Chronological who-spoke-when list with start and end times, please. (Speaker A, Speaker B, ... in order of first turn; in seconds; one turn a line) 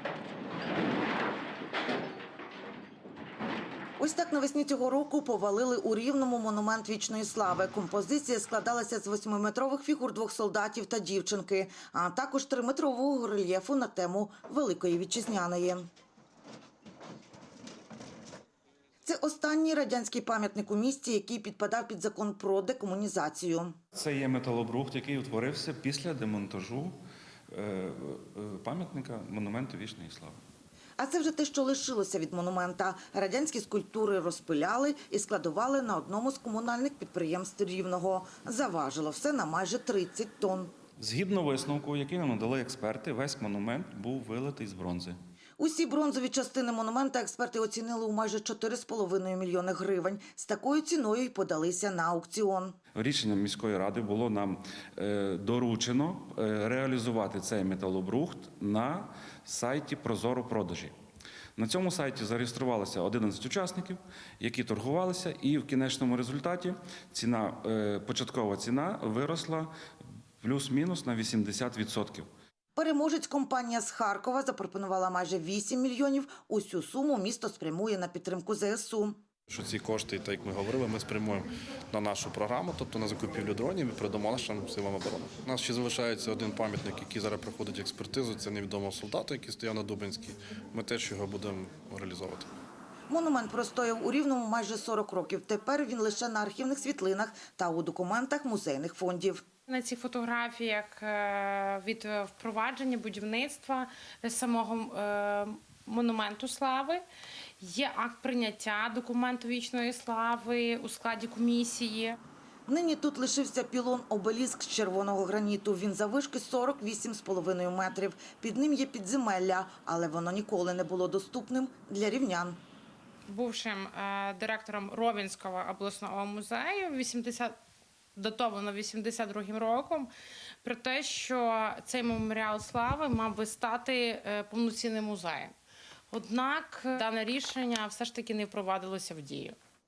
Speaker A: 4.0-15.9
Speaker A: 19.1-23.8
Speaker B: 23.9-26.9
Speaker B: 27.5-30.4
Speaker A: 31.0-40.7
Speaker B: 41.0-45.2
Speaker A: 45.6-52.8
Speaker B: 53.0-60.9
Speaker B: 61.6-69.7
Speaker B: 70.4-72.3
Speaker A: 72.8-79.2
Speaker C: 79.5-92.5
Speaker A: 93.1-99.4
Speaker D: 99.7-107.0
Speaker D: 107.6-112.2
Speaker A: 112.7-122.6
Speaker D: 123.3-127.6
Speaker D: 128.2-130.1
Speaker D: 130.6-135.5
Speaker D: 136.1-139.6